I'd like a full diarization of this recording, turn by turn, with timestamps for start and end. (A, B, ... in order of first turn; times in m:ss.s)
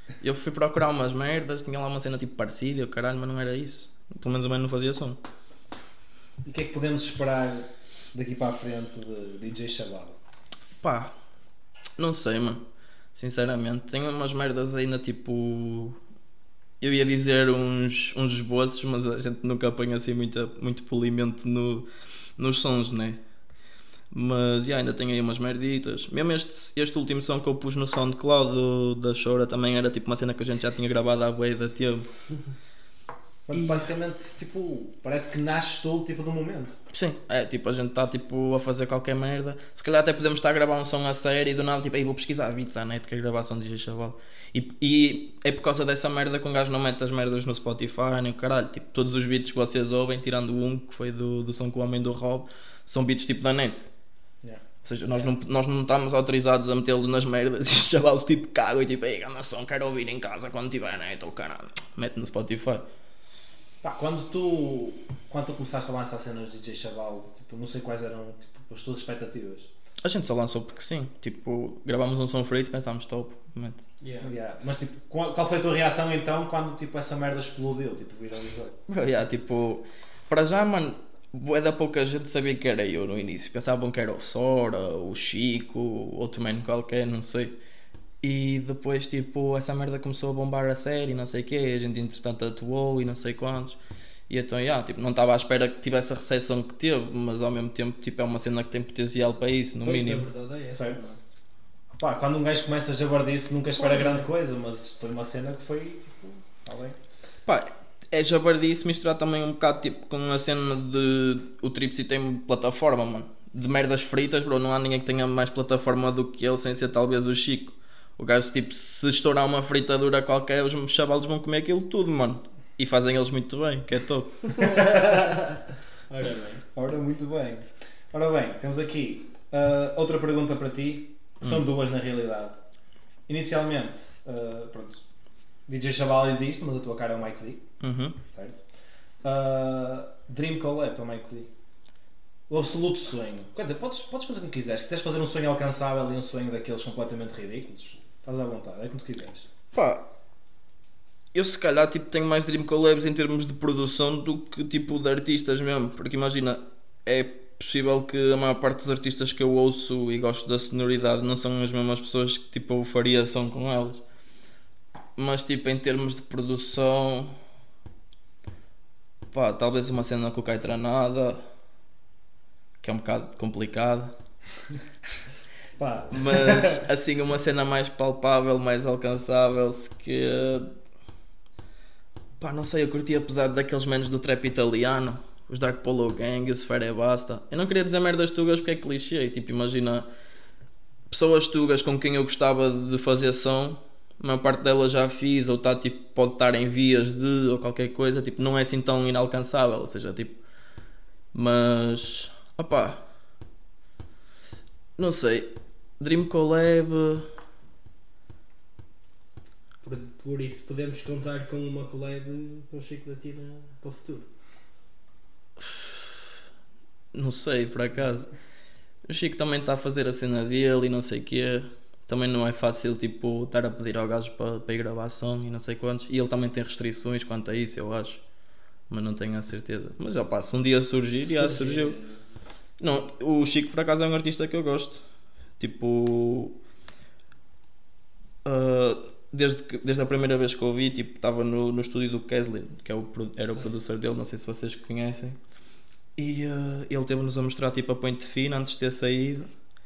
0:00.2-0:05.2 A
0:06.4-0:10.2 B
0:10.8-0:11.1 A
0:12.0-0:12.6 A
0:13.1-0:16.0 A
0:16.8-0:21.8 A
0:22.4-0:23.2 A
0:24.1-0:32.0 A
0:33.5-0:36.8 B
0:33.5-0:33.9 A
0:36.9-0:53.8 A
0:54.8-1:02.8 A
1:03.8-1:09.7 B
1:10.0-1:13.8 A
1:14.0-1:14.3 C
1:14.2-1:18.8 B
1:18.9-1:27.5 A
1:28.2-1:33.8 A
1:34.3-1:40.2 A
1:39.8-1:41.2 C
1:40.7-1:41.0 B
1:42.0-1:47.0 B
1:43.8-1:44.2 C
1:47.4-2:04.7 A
2:04.6-2:05.6 C
2:06.1-2:06.6 C
2:06.7-2:12.6 B
2:13.3-2:15.0 B
2:15.7-2:17.6 B
2:17.8-2:18.2 A
2:18.3-2:18.6 B
2:19.2-2:21.5 B
2:22.5-2:29.4 B
2:29.7-2:30.0 A
2:31.3-2:44.0 A
2:45.2-2:47.3 A
2:49.3-2:51.4 A
2:52.8-2:54.1 A
2:55.8-2:56.8 B
2:56.1-3:00.7 A
3:02.4-3:10.0 A
3:11.1-3:20.4 A
3:21.3-3:23.0 A
3:25.0-3:25.5 A
3:26.0-3:27.3 A
3:29.8-3:34.3 C
3:35.6-3:36.0 A
3:37.1-3:38.3 A
3:39.0-3:48.2 A
3:48.9-3:52.0 A
3:51.3-3:52.2 C
3:52.8-3:55.0 A
3:55.6-3:56.5 A
3:58.4-4:05.4 A
4:06.2-4:09.5 A